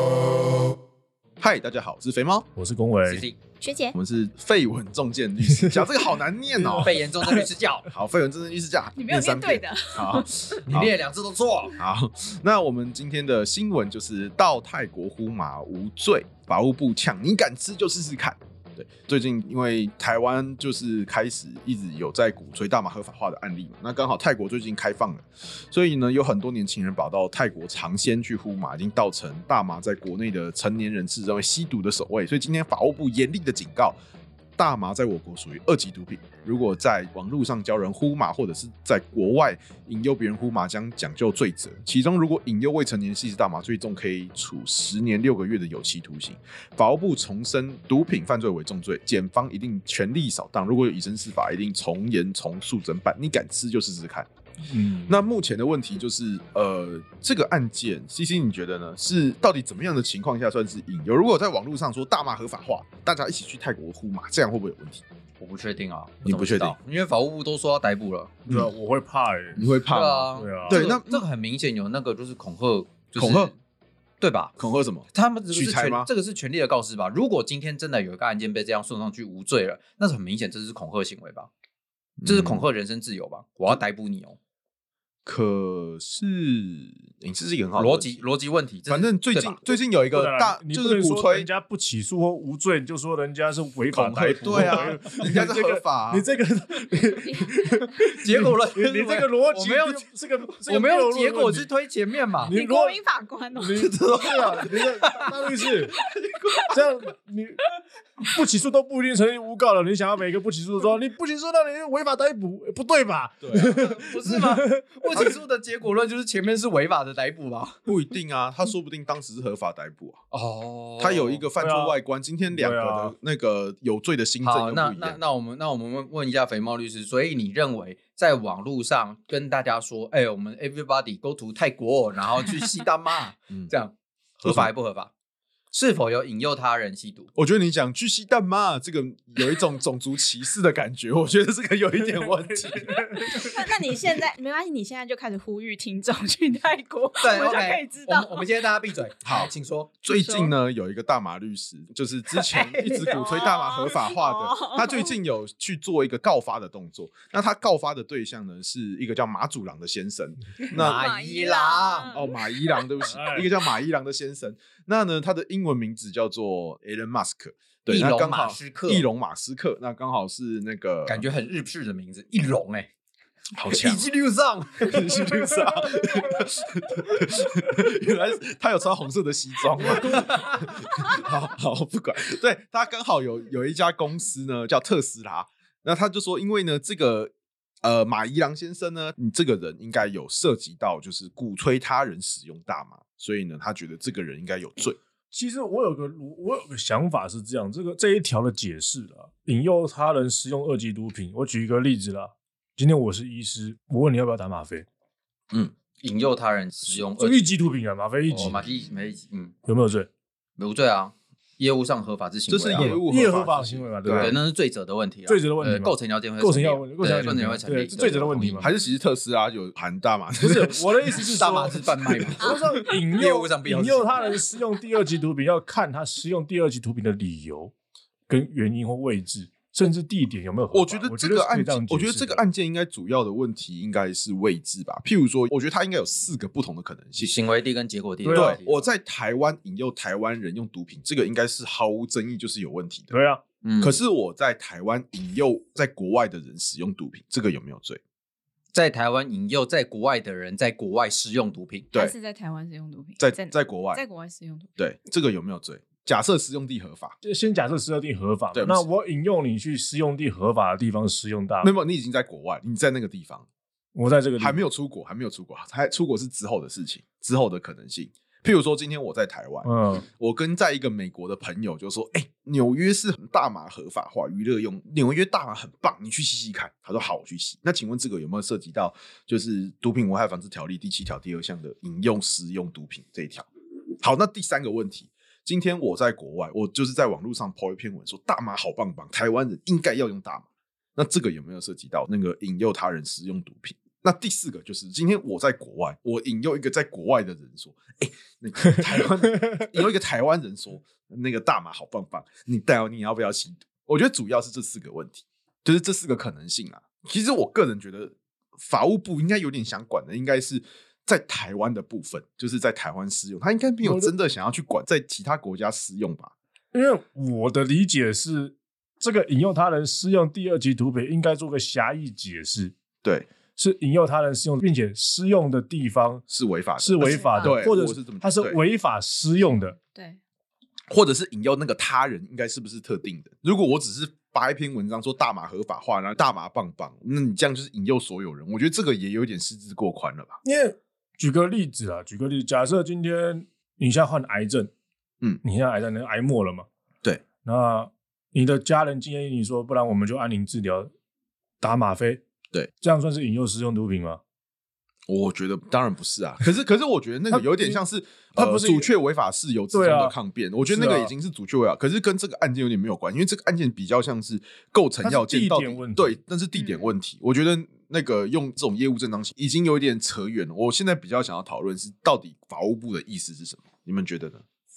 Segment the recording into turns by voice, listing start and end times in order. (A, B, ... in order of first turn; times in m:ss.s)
0:01.4-0:02.5 A
0:02.6-0:03.2 B
0:03.0-0:03.4 C
0:03.6-0:04.0 D
0:03.9-0:07.1 A
0:05.5-0:05.9 B
0:06.6-0:07.4 B
0:06.8-0:07.9 C
0:07.9-0:10.9 A
0:09.0-0:10.6 D
0:10.7-0:11.8 C
0:11.8-0:34.0 A
0:34.6-0:54.3 A
0:54.7-0:55.2 B
0:55.1-1:05.0 A
1:05.4-1:08.3 C
1:06.2-1:06.8 A
1:08.5-1:09.7 B
1:09.6-1:11.3 A
1:09.9-1:13.5 C
1:10.2-1:10.8 B
1:13.2-1:13.5 A
1:14.2-1:14.5 C
1:14.6-1:16.1 A
1:15.1-1:21.5 C
1:22.2-1:22.7 A
1:22.3-1:24.4 C
1:25.2-1:28.2 A
1:27.8-1:29.7 C
1:28.9-1:31.5 A
1:29.9-1:41.7 B
1:33.9-1:35.0 C
1:34.3-1:36.3 A
1:37.2-1:37.9 D
1:38.2-1:40.1 C
1:40.6-1:42.6 C
1:42.4-1:43.0 B
1:42.5-1:44.7 D
1:43.6-1:46.0 B
1:46.6-1:47.6 B
1:48.3-1:54.8 B
1:53.4-1:54.0 A
1:53.7-1:57.8 C
1:57.9-2:00.2 A
2:00.3-2:01.4 C
2:01.0-2:05.2 A
2:01.6-2:02.0 B
2:02.5-2:03.2 B
2:04.4-2:15.1 C
2:14.4-2:14.7 A
2:15.7-2:17.3 C
2:17.4-2:23.8 A
2:22.2-2:23.5 B
2:23.4-2:28.5 D
2:27.2-2:29.9 C
2:29.2-2:29.5 A
2:30.0-2:41.1 A
2:30.1-2:30.5 D
2:32.4-2:35.1 D
2:40.7-2:42.2 C
2:40.8-2:42.8 D
2:42.1-2:51.3 A
2:43.1-2:43.5 B
2:47.9-2:49.1 C
2:51.1-2:52.9 C
2:53.6-2:54.1 A
2:53.7-2:55.2 C
2:54.8-3:07.3 A
2:59.9-3:00.7 C
3:07.8-3:15.0 A
3:15.3-3:24.9 B
3:26.0-3:27.6 C
3:26.9-3:28.7 B
3:28.3-3:29.6 C
3:29.6-3:30.1 B
3:30.6-3:33.0 C
3:32.5-3:34.4 A
3:32.7-3:34.4 B
3:34.1-3:38.7 C
3:35.3-3:38.7 B
3:38.6-3:41.2 A
3:40.4-3:47.7 B
3:41.2-3:44.4 C
3:48.3-3:52.4 B
3:50.7-3:57.4 A
3:57.2-3:58.9 C
3:58.2-3:58.6 B
3:58.3-4:03.1 A
4:03.1-4:03.4 B
4:03.6-4:04.0 C
4:03.8-4:08.0 A
4:08.7-4:11.9 C
4:11.9-4:14.7 D
4:13.2-4:14.0 A
4:14.8-4:17.2 A
4:17.2-4:21.7 B
4:18.5-4:18.9 A
4:21.6-4:23.5 A
4:24.0-4:24.6 B
4:24.4-4:43.5 A
4:29.6-4:30.0 B
4:44.0-5:16.3 A
5:13.8-5:14.1 B
5:16.7-5:22.7 B
5:23.0-5:23.3 A
5:23.6-5:26.2 B
5:26.3-5:28.6 A
5:26.8-5:29.8 B
5:27.0-5:27.6 D
5:29.8-5:30.2 D
5:30.9-5:40.4 A
5:40.4-5:44.7 B
5:45.4-5:46.7 B
5:47.4-5:50.9 B
5:51.6-5:52.2 B
5:52.8-5:54.2 B
5:55.1-6:14.4 A
5:57.3-5:57.8 B
5:58.4-5:58.9 B
5:59.7-6:00.2 B
6:00.7-6:01.1 B
6:05.0-6:06.2 B
6:06.6-6:06.9 D